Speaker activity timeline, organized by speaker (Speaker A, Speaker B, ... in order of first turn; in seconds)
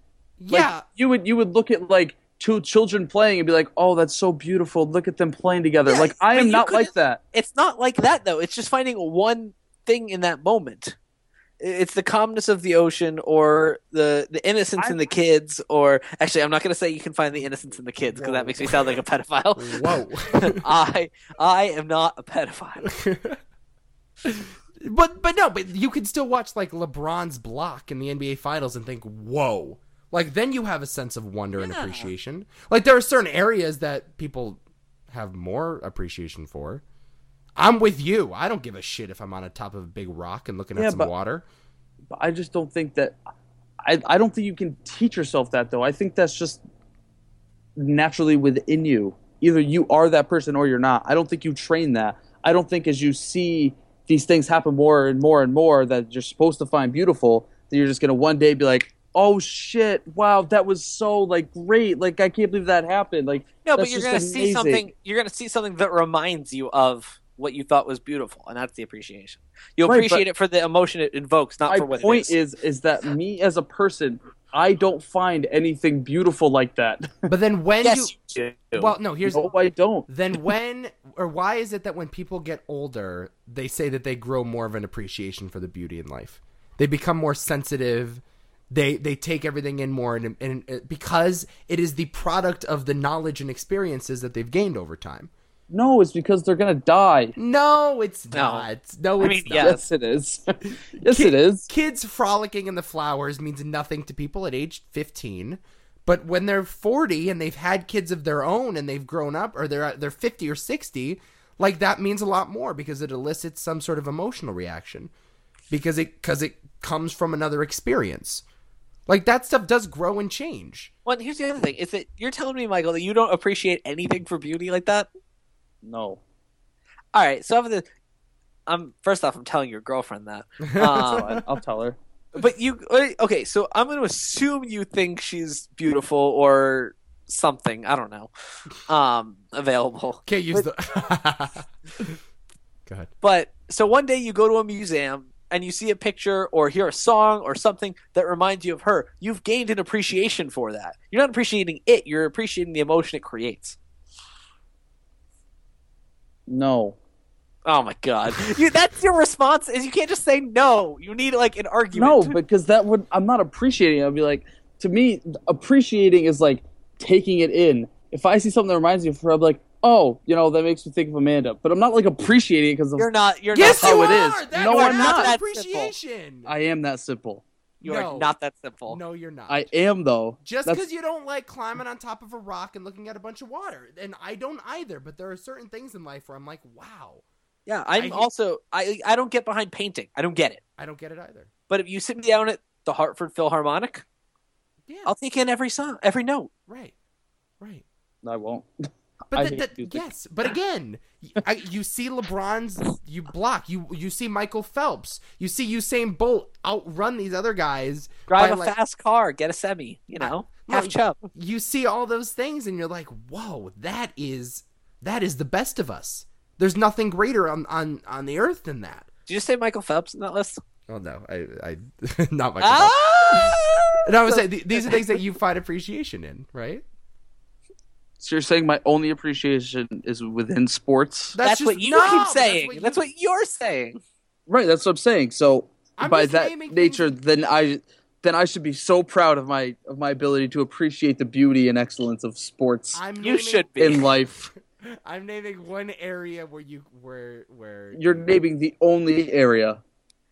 Speaker A: 0.4-0.8, 18.1-19.0, 19.6-20.6, 22.9-23.4, 24.2-36.8, 37.6-41.5, 77.3-78.1, 78.8-79.5, 80.1-95.3, 97.4-99.8, 101.1-115.1, 115.7-118.4, 119.1-120.9, 130.7-131.4, 140.3-142.2, 173.5-176.5, 177.8-178.3, 178.9-179.7, 180.4-187.2, 188.0-188.3, 190.8-191.5, 194.9-195.1, 196.7-196.9, 199.3-208.7, 210.2-219.1, 220.9-226.8, 231.3-233.0, 236.0-237.1, 242.9-248.3
Speaker B: 0.5-7.2, 14.8-15.1, 40.8-41.1, 42.1-43.2, 43.8-46.6, 47.8-64.9, 69.8-70.2, 71.7-77.1, 79.3-80.1, 95.7-97.3, 99.6-100.4, 101.0-101.7, 125.8-126.2, 130.8-132.0, 156.5-157.0, 161.9-173.1, 173.6-175.3, 176.4-177.4, 179.5-180.8, 198.2-198.7, 199.3-200.1, 228.2-231.4, 234.5-243.0, 243.8-244.4, 247.9-249.8
Speaker C: 5.9-11.0, 11.6-22.9, 31.6-32.1, 63.6-72.3, 77.8-78.8, 98.3-98.7, 99.2-99.8, 121.1-125.1, 127.1-127.8, 128.7-131.4, 132.3-140.7, 143.2-153.8, 157.7-162.4, 173.0-175.9, 177.8-179.0, 187.7-190.6, 191.7-194.0, 195.1-196.5, 208.3-211.2, 219.3-220.6, 222.6-224.3, 231.4-234.0, 243.2-244.1